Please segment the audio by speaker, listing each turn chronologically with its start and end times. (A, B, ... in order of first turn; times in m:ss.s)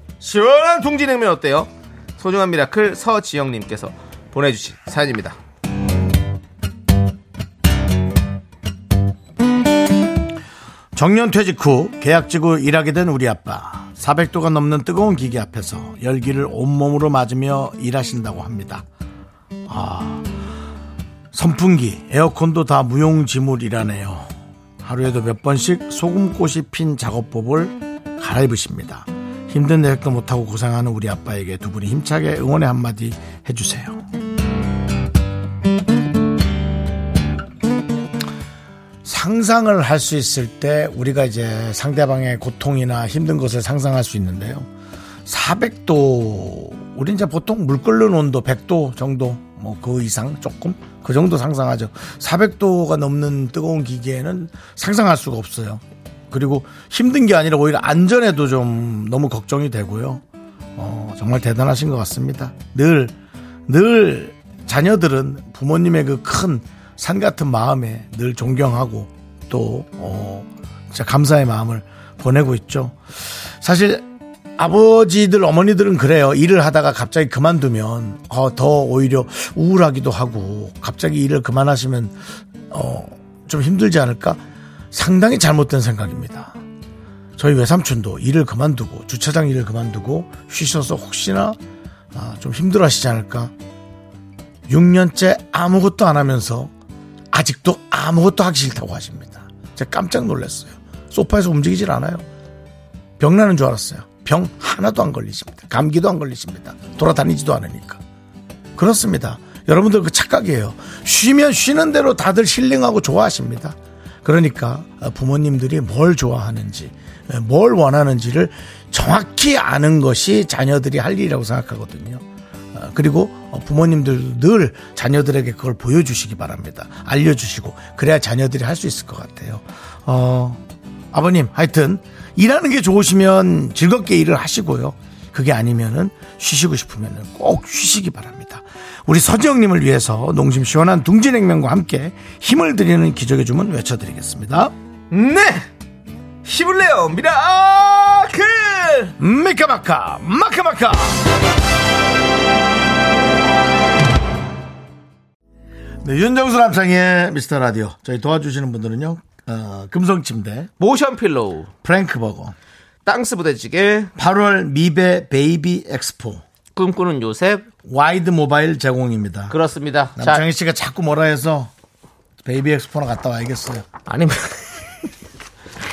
0:00.2-0:05.4 A
0:11.0-0:18.8 B
0:19.7-0:20.3 B
0:21.3-0:34.0 B
0:39.0-0:44.7 B
0:45.3-1:00.2 B
1:00.8-1:03.2 B
1:03.7-1:22.2 B
1:22.7-1:26.6 B
1:27.4-1:31.6 B
1:32.1-1:33.5 B
1:34.7-1:36.7 B
1:37.3-1:42.2 B
1:43.2-1:48.0 B
1:48.8-2:10.6 B
2:11.1-2:24.7 B
2:25.1-2:25.7 A
2:26.4-2:29.2 A
2:29.2-2:31.2 B
2:36.0-2:40.7 B
2:40.8-2:41.7 A
2:41.8-2:42.6 B
2:43.1-2:44.1 A
2:44.2-2:46.4 B
2:46.8-2:47.7 A
2:47.8-2:49.6 B
2:49.5-2:50.4 A
2:50.2-2:51.7 B
2:52.4-2:53.9 B
2:54.1-2:54.8 A